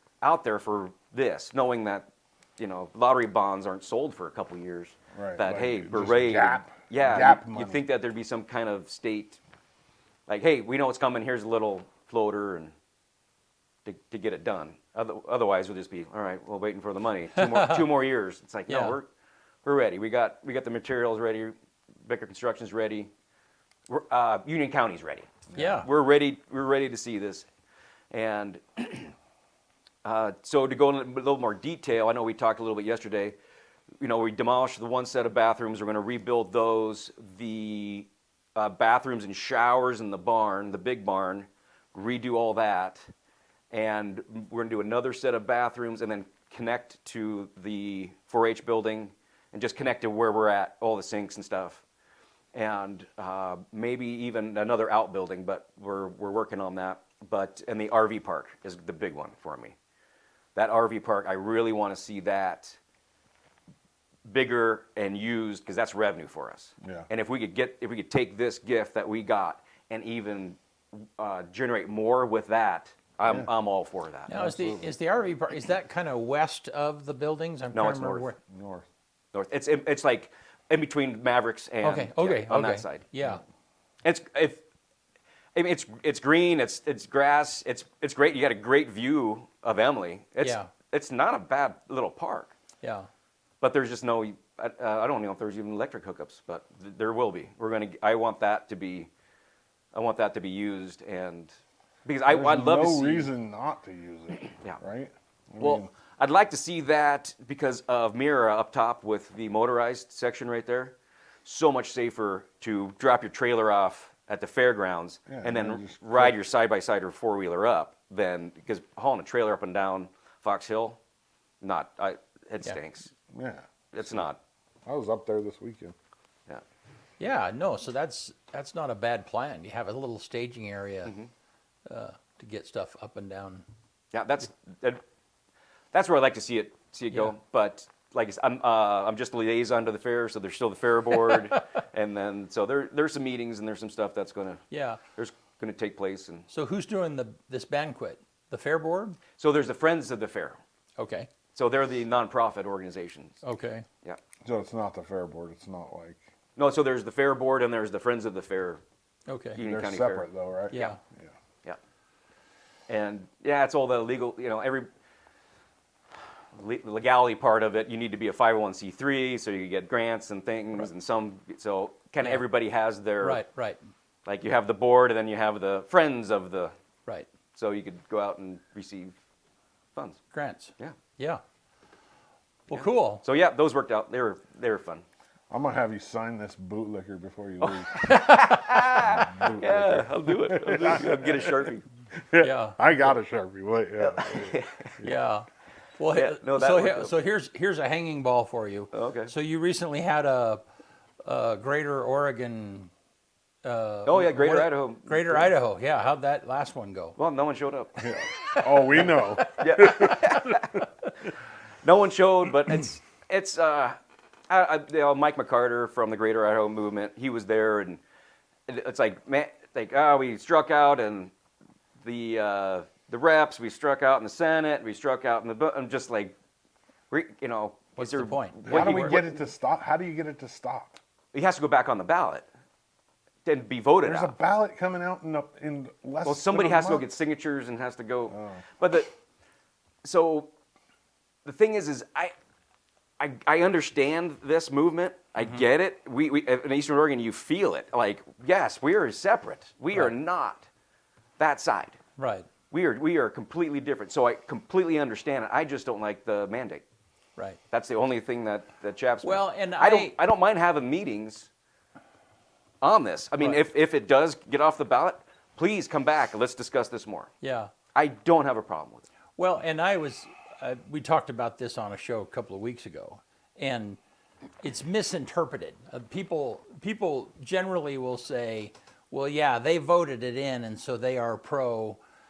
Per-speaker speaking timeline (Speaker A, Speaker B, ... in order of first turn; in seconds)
Speaker A: 0.2-2.1, 2.6-9.4, 10.3-12.7, 13.8-19.1, 19.6-21.5, 22.1-23.1, 23.9-27.5, 28.1-29.1, 30.0-33.4, 34.0-43.0, 43.7-51.8, 52.5-59.7, 60.5-62.8, 64.3-74.4, 77.7-78.3, 79.3-83.1, 84.0-84.6, 85.5-92.5, 93.6-99.1, 99.9-101.5, 102.0-103.3, 104.5-104.8, 105.6-121.0, 121.6-123.1, 123.9-124.4, 134.1-135.0, 135.9-146.5, 149.4-150.6, 151.5-153.4, 156.6-158.8, 159.5-161.0, 162.9-164.9, 166.5-173.4, 174.2-176.7, 177.5-179.1, 179.9-180.2, 182.7-185.0, 187.6-191.8, 194.0-195.1, 196.1-197.1, 198.9-199.3, 204.1-205.5, 207.2-208.0, 209.6-210.8, 211.8-213.9, 214.5-218.0, 218.7-221.3, 222.0-226.3, 227.1-229.2, 231.3-232.5, 233.4-234.3, 236.2-239.1, 240.0-240.5, 241.4-242.3, 243.2-250.7, 251.4-252.0, 252.7-256.8, 257.7-261.5, 262.8-267.3, 267.9-269.1
Speaker B: 5.1-7.8, 66.8-67.1, 73.2-73.5, 74.3-74.9, 78.5-78.9, 102.3-105.9, 115.3-116.4, 123.3-124.3, 124.8-125.9, 154.4-156.2, 159.6-161.3, 185.5-188.3, 189.0-191.7, 192.2-195.1, 208.0-210.1, 228.6-231.0, 234.0-237.1, 238.3-238.6
Speaker C: 17.4-17.8, 18.7-19.0, 25.5-25.9, 74.3-78.4, 81.8-83.4, 90.4-90.7, 92.8-93.1, 127.2-131.1, 131.8-133.6, 144.7-145.0, 146.5-149.2, 151.0-151.3, 153.4-153.8, 159.3-159.6, 160.7-161.0, 173.2-173.8, 180.3-181.4, 182.7-183.2, 188.3-188.6, 192.4-192.8, 195.0-195.5, 196.0-200.6, 201.2-202.9, 203.6-207.2, 208.0-209.6, 228.0-229.3, 245.4-245.6, 252.2-252.5, 259.2-260.1, 267.4-267.7, 269.4-274.0, 274.6-282.0